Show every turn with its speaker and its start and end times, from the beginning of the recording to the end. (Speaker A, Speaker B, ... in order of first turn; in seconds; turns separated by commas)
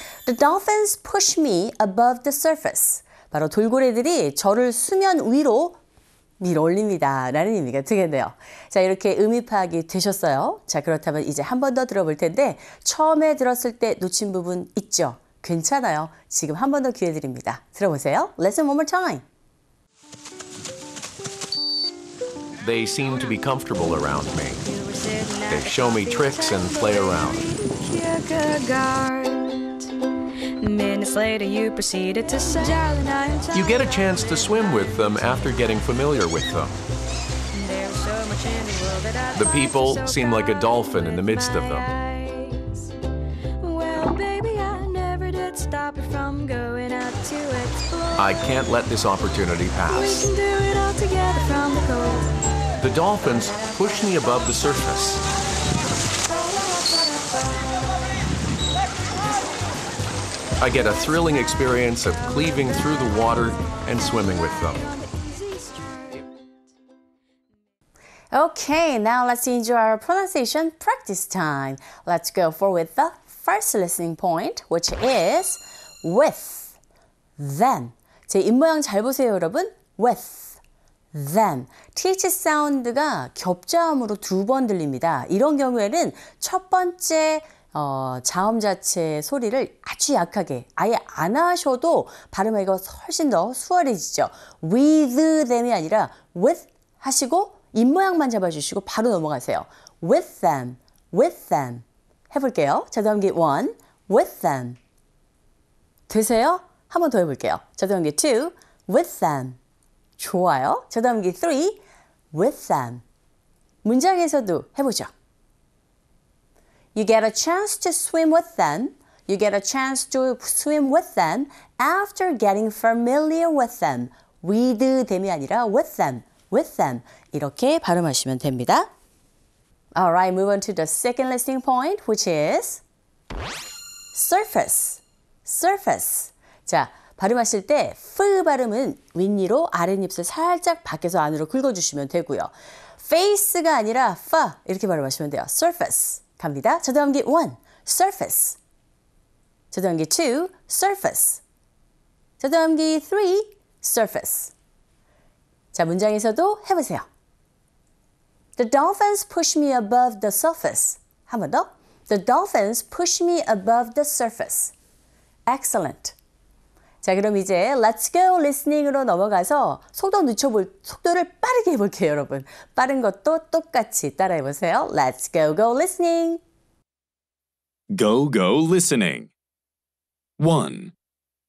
Speaker A: 0.2-5.8, Speaker A: 6.4-19.2, Speaker B: 22.6-24.6, Speaker C: 24.6-29.8, Speaker B: 25.5-27.5, Speaker C: 30.6-34.9, Speaker B: 33.5-36.8, Speaker C: 37.5-42.9, Speaker B: 39.3-41.9, Speaker C: 43.6-48.2, Speaker B: 48.1-50.3, Speaker C: 49.9-52.3, Speaker B: 52.8-55.2, Speaker B: 60.6-64.8, Speaker C: 62.6-64.1, Speaker C: 64.8-66.3, Speaker A: 68.3-76.8, Speaker A: 77.4-80.6, Speaker A: 81.1-104.8, Speaker A: 106.1-109.6, Speaker A: 110.2-111.8, Speaker A: 112.3-113.0, Speaker A: 113.8-115.1, Speaker A: 116.9-128.9, Speaker A: 129.9-132.8, Speaker A: 134.1-148.6, Speaker A: 149.7-151.4, Speaker A: 152.4-154.5, Speaker A: 155.7-157.0, Speaker A: 158.6-164.7, Speaker A: 165.5-166.1, Speaker A: 167.0-176.4, Speaker D: 177.9-179.3, Speaker D: 180.4-180.9